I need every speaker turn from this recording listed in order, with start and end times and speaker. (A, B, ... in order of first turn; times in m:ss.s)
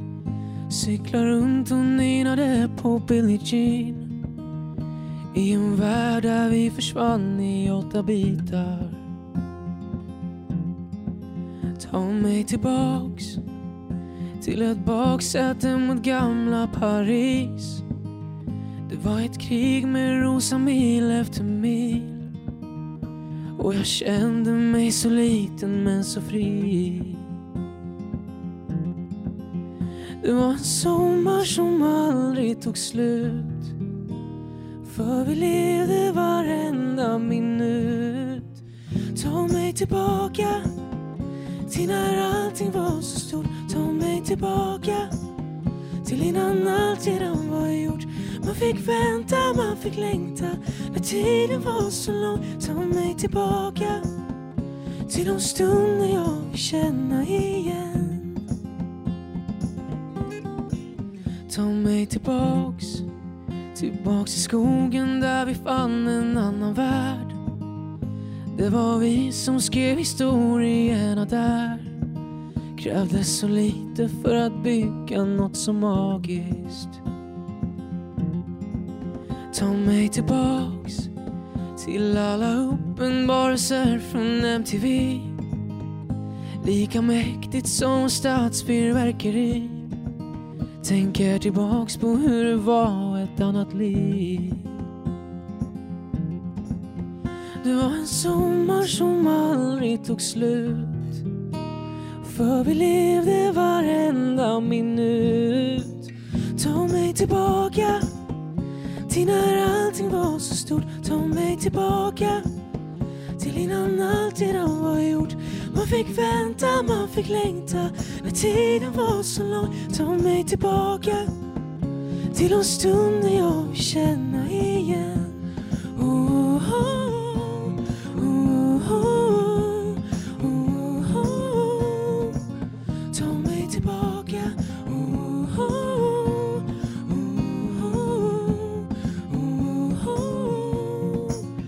0:00.7-0:04.1 A
0:05.3-0:09.0 A
0:11.8-0:13.4 A
0:14.4-0:17.8 A
0:18.9-0:22.2 A
0:23.6-0:27.3 A
0:30.2-0:33.7 A
0:34.8-0:38.6 A
0:39.1-0:40.8 A
0:41.7-0:45.1 A
0:46.0-0:54.1 A
0:55.1-0:58.4 A
1:01.5-1:03.1 A
1:03.7-1:07.4 A
1:08.5-1:11.9 A
1:12.8-1:17.0 A
1:19.5-1:21.1 A
1:21.8-1:25.4 A
1:26.6-1:29.9 A
1:30.8-1:34.7 A
1:37.6-1:41.2 A
1:42.2-1:48.1 A
1:49.1-1:52.5 A
1:53.4-2:01.3 A
2:02.3-2:05.4 A
2:06.0-2:12.4 A
2:13.1-2:21.5 A